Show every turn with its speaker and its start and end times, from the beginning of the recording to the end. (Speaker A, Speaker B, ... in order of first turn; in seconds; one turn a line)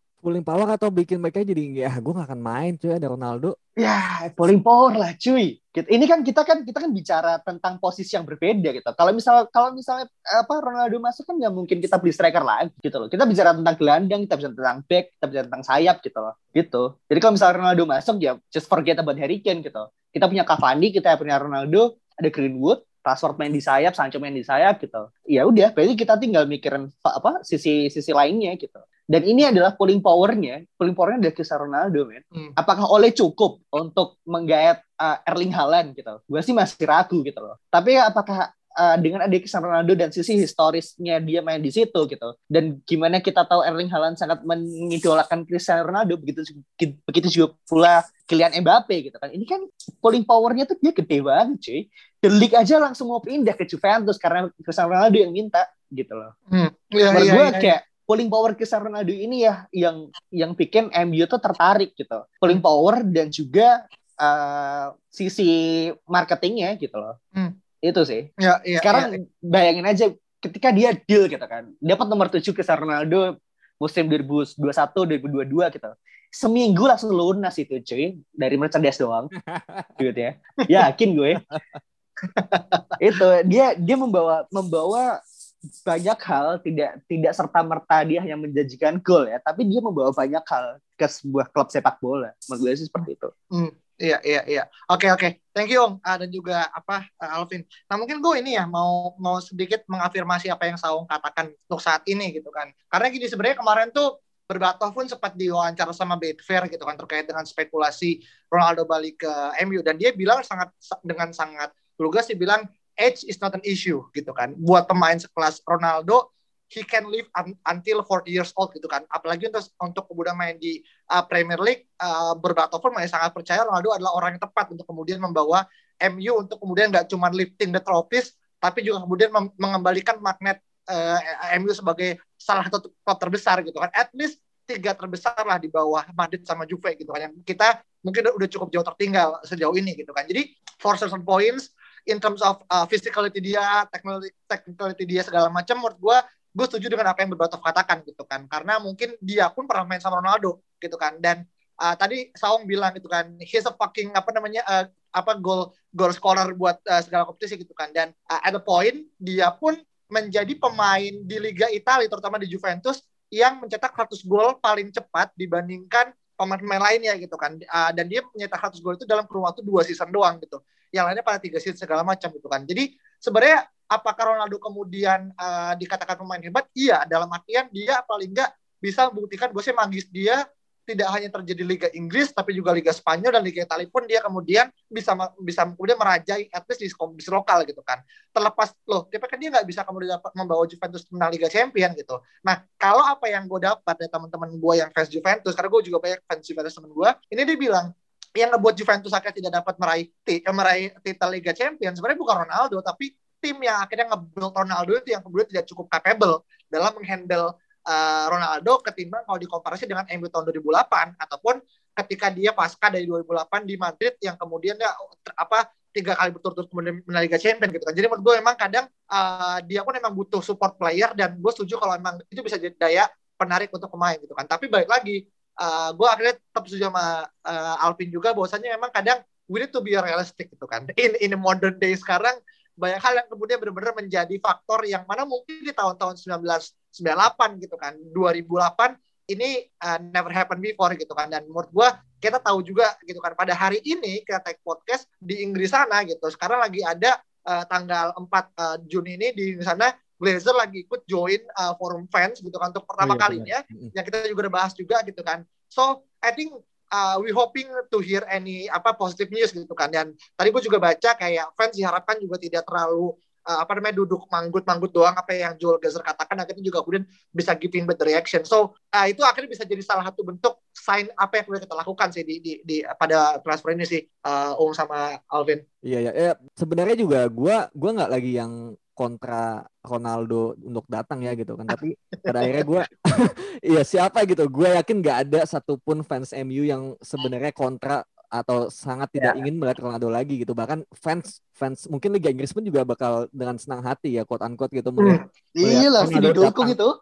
Speaker A: 0.2-3.5
Speaker B: 3.8-56.3
Speaker C: 56.5-57.7
Speaker B: 57.1-67.1
Speaker B: 67.8-68.3
Speaker C: 68.4-69.1
Speaker B: 68.8-73.2
Speaker B: 73.8-79.3
Speaker A: 79.5-79.9
Speaker B: 80.0-81.4
Speaker C: 82.3-82.8
Speaker B: 83.0-85.1
Speaker B: 85.8-93.3
Speaker C: 93.5-197.9
Speaker C: 198.4-275.6
Speaker A: 253.0-253.9
Speaker A: 275.8-296.8
Speaker B: 295.6-296.9